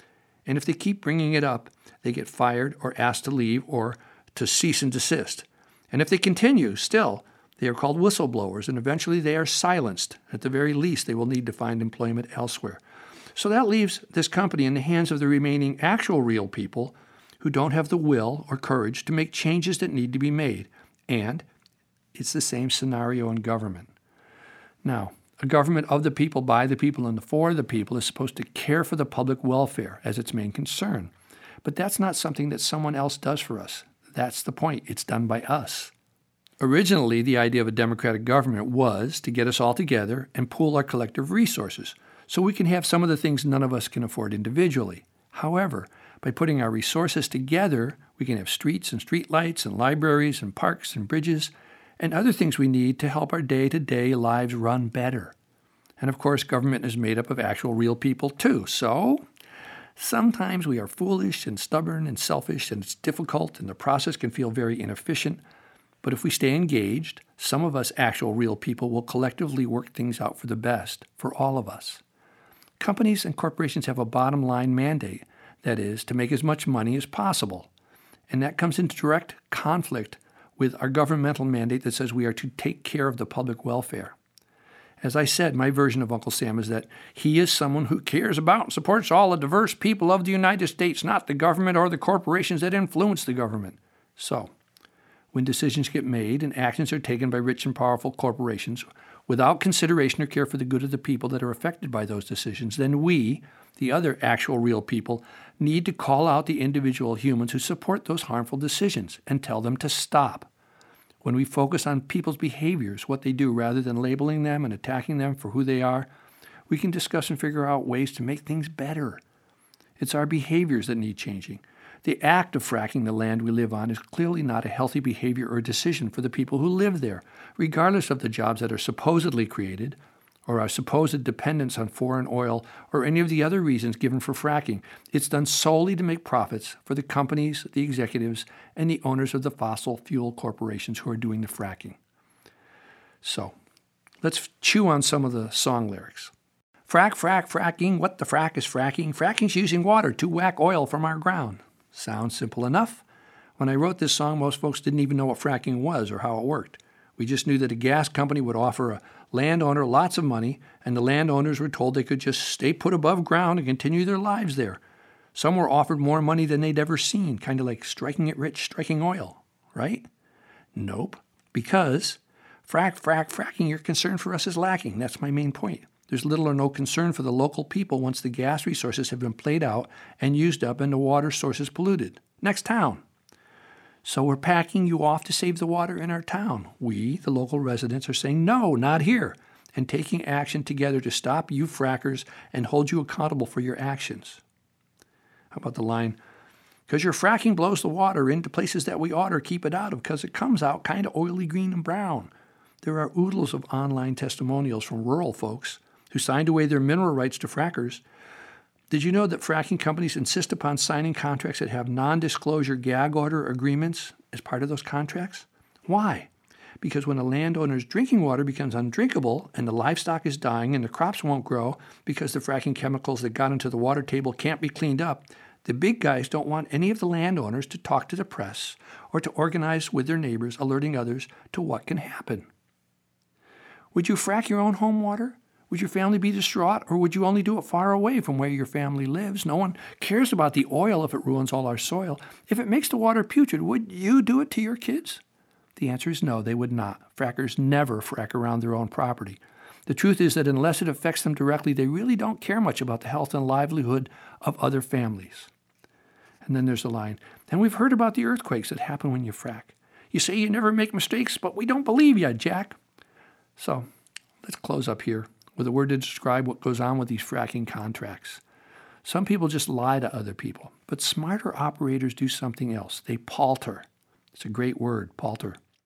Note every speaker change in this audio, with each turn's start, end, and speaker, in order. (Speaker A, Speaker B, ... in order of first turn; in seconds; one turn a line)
Speaker A: 0.5-12.8
Speaker A: 13.3-21.4
Speaker A: 22.1-23.9
Speaker A: 24.8-31.1
Speaker A: 31.6-35.9
Speaker A: 36.6-55.3
Speaker A: 56.0-59.2
Speaker A: 60.0-65.4
Speaker A: 66.0-72.0
Speaker A: 72.8-77.7
Speaker A: 78.3-84.2
Speaker A: 85.0-94.5
Speaker A: 95.3-110.5
Speaker A: 111.2-116.1
Speaker A: 116.7-119.2
Speaker A: 120.0-142.0
Speaker A: 143.2-143.5
Speaker A: 144.2-146.3
Speaker A: 146.9-153.0
Speaker A: 153.6-164.8
Speaker A: 165.3-170.1
Speaker A: 170.7-183.0
Speaker A: 184.0-194.4
Speaker A: 195.5-196.2
Speaker A: 196.9-202.3
Speaker A: 202.8-208.0
Speaker A: 208.9-216.3
Speaker A: 216.8-232.5
Speaker A: 233.9-245.2
Speaker A: 245.8-255.5
Speaker A: 256.4-262.8
Speaker A: 263.6-263.9
Speaker A: 264.4-268.4
Speaker A: 269.0-275.6